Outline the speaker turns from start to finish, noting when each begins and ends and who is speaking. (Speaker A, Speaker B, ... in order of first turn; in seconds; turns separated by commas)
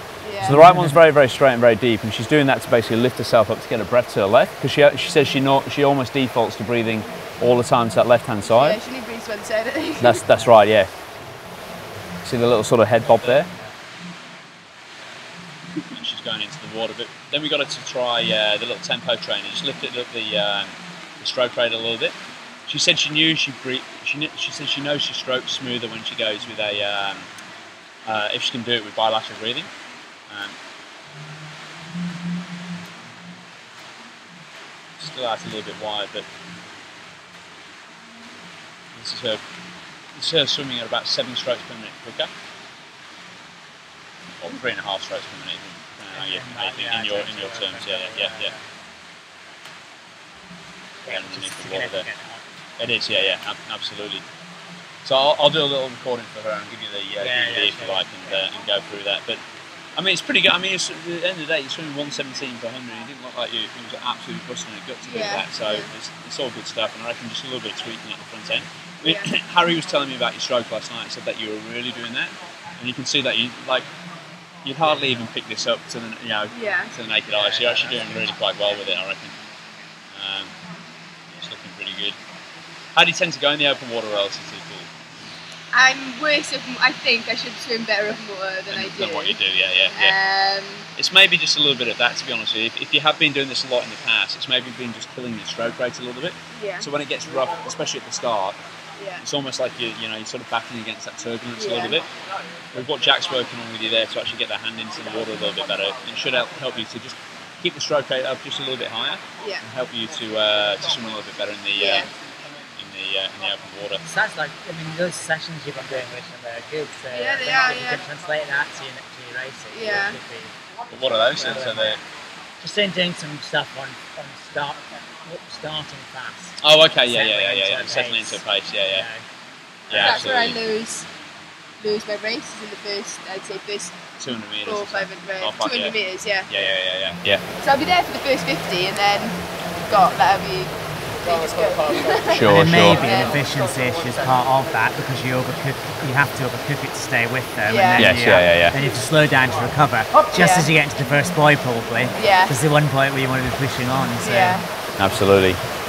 Speaker A: 0.2-0.6, Speaker B: 0.4-8.8, Speaker C: 0.5-1.0, Speaker A: 8.5-10.2, Speaker B: 10.0-10.9, Speaker C: 10.3-10.6, Speaker B: 12.2-13.5, Speaker B: 15.9-22.1, Speaker B: 22.7-27.3, Speaker B: 28.1-29.7, Speaker B: 30.3-30.6, Speaker B: 35.0-36.3, Speaker B: 38.9-39.4, Speaker B: 40.1-42.3, Speaker B: 44.4-48.5, Speaker C: 46.1-48.6, Speaker C: 51.0-52.4, Speaker B: 51.1-52.1, Speaker B: 52.8-54.2, Speaker C: 53.1-53.3, Speaker B: 55.0-59.4, Speaker C: 57.2-58.4, Speaker B: 60.0-73.9, Speaker A: 65.0-65.9, Speaker A: 69.0-69.3, Speaker B: 74.6-79.3, Speaker A: 76.5-76.9, Speaker C: 77.3-78.3, Speaker B: 80.1-80.5, Speaker B: 81.3-82.2, Speaker B: 83.0-84.9, Speaker A: 85.7-89.4, Speaker B: 88.7-90.2, Speaker A: 89.9-90.8, Speaker B: 91.0-98.6, Speaker A: 96.5-96.9, Speaker A: 99.0-99.2, Speaker B: 99.2-102.1, Speaker A: 101.5-102.0, Speaker B: 102.7-112.1, Speaker A: 109.4-109.6, Speaker A: 111.7-112.1, Speaker B: 112.8-114.0, Speaker C: 114.0-120.5, Speaker A: 117.1-118.0, Speaker A: 119.7-120.2, Speaker B: 120.9-122.0, Speaker C: 121.3-122.0, Speaker C: 122.6-129.2, Speaker B: 126.6-129.1, Speaker B: 129.9-130.6, Speaker A: 129.9-131.1, Speaker A: 131.8-134.0, Speaker B: 134.2-135.9, Speaker A: 134.6-136.5, Speaker B: 136.5-137.4, Speaker A: 137.6-139.4, Speaker A: 139.9-143.4, Speaker B: 142.3-143.1, Speaker C: 142.4-154.6, Speaker A: 147.7-148.1, Speaker B: 148.0-148.8, Speaker A: 150.3-150.7, Speaker A: 152.2-152.5, Speaker A: 154.2-154.7, Speaker B: 155.0-155.6